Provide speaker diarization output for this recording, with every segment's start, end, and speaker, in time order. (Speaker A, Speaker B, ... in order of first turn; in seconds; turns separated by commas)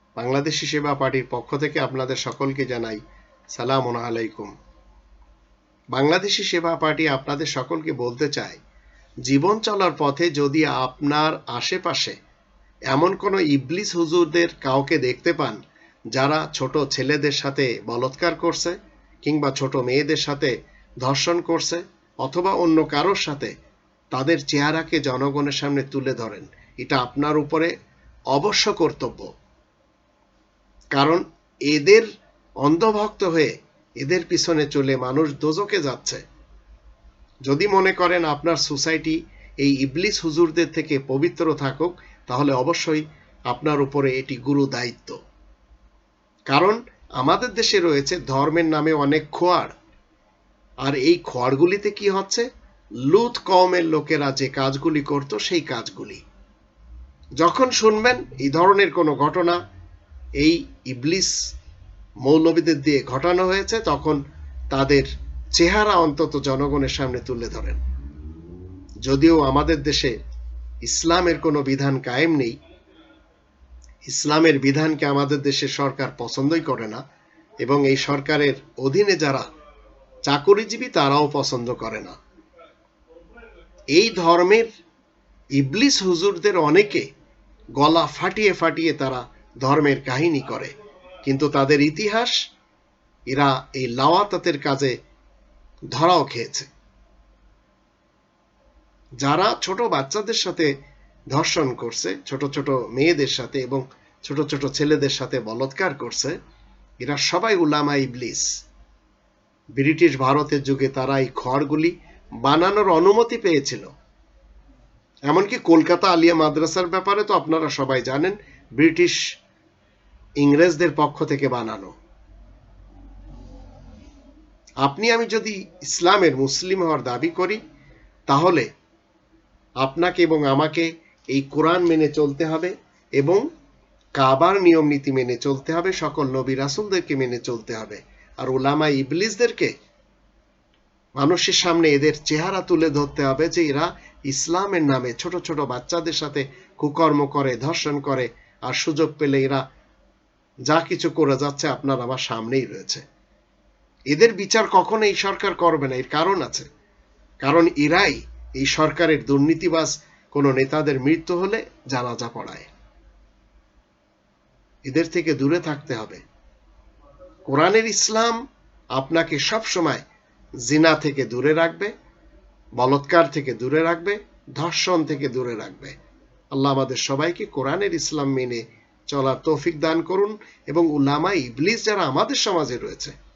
Speaker A: 0.2-3.0, Speaker A: 3.5-4.5, Speaker A: 5.9-8.6, Speaker A: 9.2-12.2, Speaker A: 12.9-15.6, Speaker A: 16.1-23.5, Speaker A: 24.1-27.7, Speaker A: 28.3-29.3, Speaker A: 30.9-32.1, Speaker A: 32.6-36.2, Speaker A: 37.5-45.2, Speaker A: 46.5-49.7, Speaker A: 50.8-52.5, Speaker A: 53.0-56.2, Speaker A: 57.4-59.6, Speaker A: 60.4-61.4, Speaker A: 62.2-64.2, Speaker A: 64.7-67.8, Speaker A: 69.0-70.1, Speaker A: 70.8-72.5, Speaker A: 74.0-77.0, Speaker A: 77.6-79.5, Speaker A: 80.2-82.2, Speaker A: 83.9-84.7, Speaker A: 85.6-87.1, Speaker A: 87.8-92.4, Speaker A: 93.3-94.9, Speaker A: 95.9-96.7, Speaker A: 99.2-100.7, Speaker A: 101.3-106.3, Speaker A: 107.0-108.5, Speaker A: 109.8-113.9, Speaker A: 115.3-119.2, Speaker A: 120.4-121.9, Speaker A: 124.8-127.6, Speaker A: 128.3-128.7, Speaker A: 129.8-133.4, Speaker A: 134.2-139.7, Speaker A: 141.2-149.6, Speaker A: 150.7-153.0, Speaker A: 154.1-156.7, Speaker A: 157.4-162.7, Speaker A: 164.8-166.2, Speaker A: 167.5-168.4, Speaker A: 168.9-170.0, Speaker A: 170.7-171.9, Speaker A: 172.8-175.9, Speaker A: 176.5-183.1